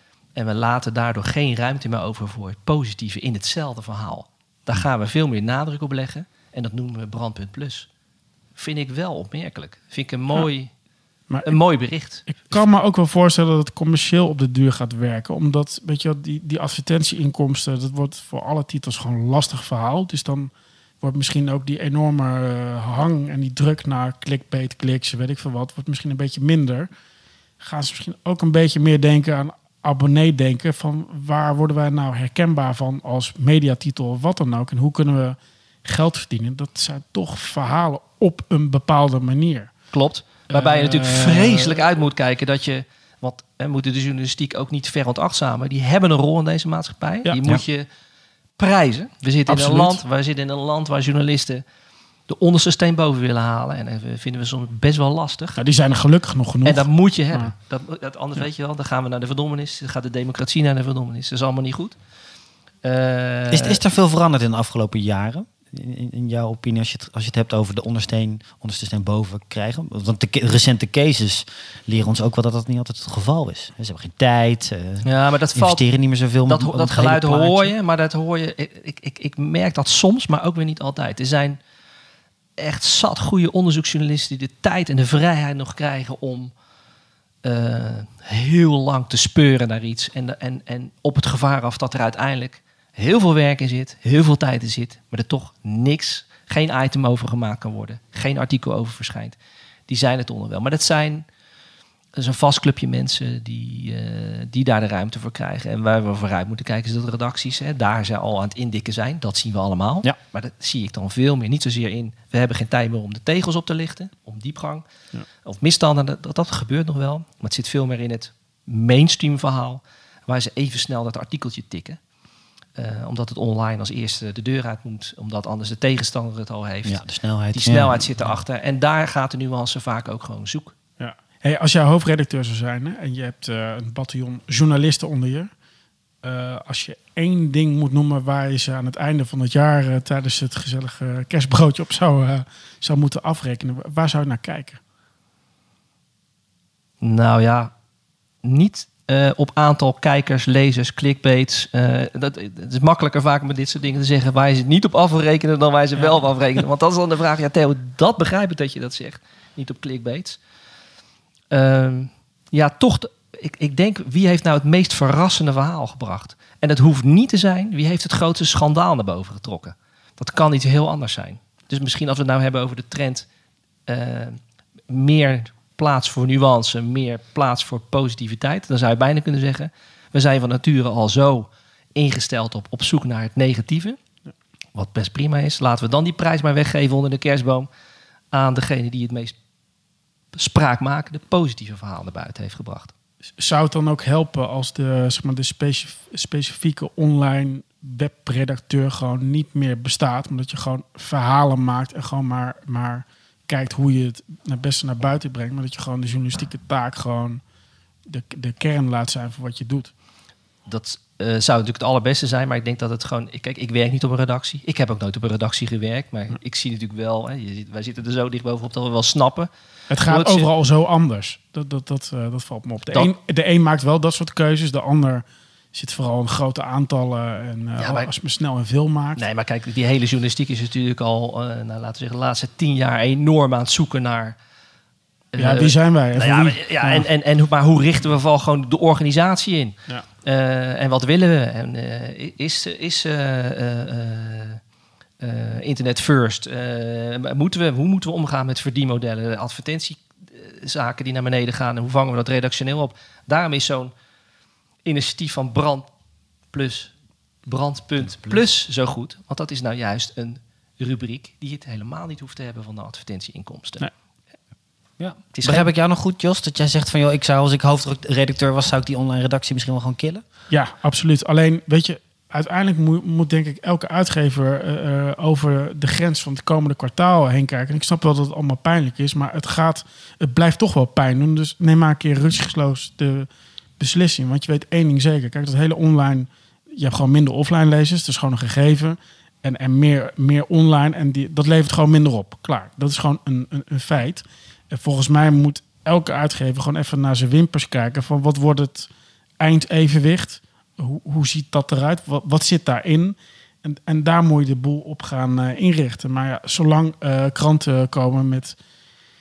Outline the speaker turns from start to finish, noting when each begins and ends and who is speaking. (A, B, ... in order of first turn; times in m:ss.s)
0:00.3-0:07.9 A
0:08.6-0:10.7 A
0:11.3-0:11.6 B
0:11.4-0:12.6 A
0:12.2-0:26.9 B
0:27.6-0:39.8 B
0:39.9-0:47.9 A
0:40.5-0:41.8 B
0:48.6-0:51.6 A
0:49.5-0:50.0 B
0:52.3-0:55.6 A
0:55.6-0:57.5 B
0:56.6-1:02.0 A
1:02.8-1:03.8 A
1:03.5-1:17.7 C
1:15.0-1:15.8 A
1:16.4-1:21.6 A
1:22.6-1:26.5 A
1:27.4-1:39.4 A
1:39.9-1:41.2 A
1:42.2-1:54.8 A
1:55.4-2:02.0 A
2:02.8-2:07.0 A
2:06.8-2:08.3 C
2:07.5-2:10.7 A
2:11.0-2:15.5 B
2:16.2-2:24.8 B
2:27.0-2:27.7 A
2:28.4-2:40.4 A
2:41.5-2:53.3 A
2:53.9-3:04.0 A
3:04.7-3:07.7 A
3:08.3-3:09.3 A
3:10.3-3:12.9 A
3:13.4-3:27.4 B
3:28.1-3:29.9 B
3:30.7-3:39.5 A
3:39.9-3:49.2 B
3:40.0-3:40.5 A
3:47.8-3:48.1 A
3:49.2-3:54.4 A
3:55.3-4:04.6 A
3:55.4-3:57.0 B
4:05.2-4:13.9 A
4:14.8-4:15.9 A
4:16.5-4:16.9 A
4:17.5-4:23.9 A
4:25.0-4:30.2 C
4:25.3-4:25.7 A
4:30.5-4:43.3 B
4:43.8-4:58.9 B
4:59.4-5:08.6 B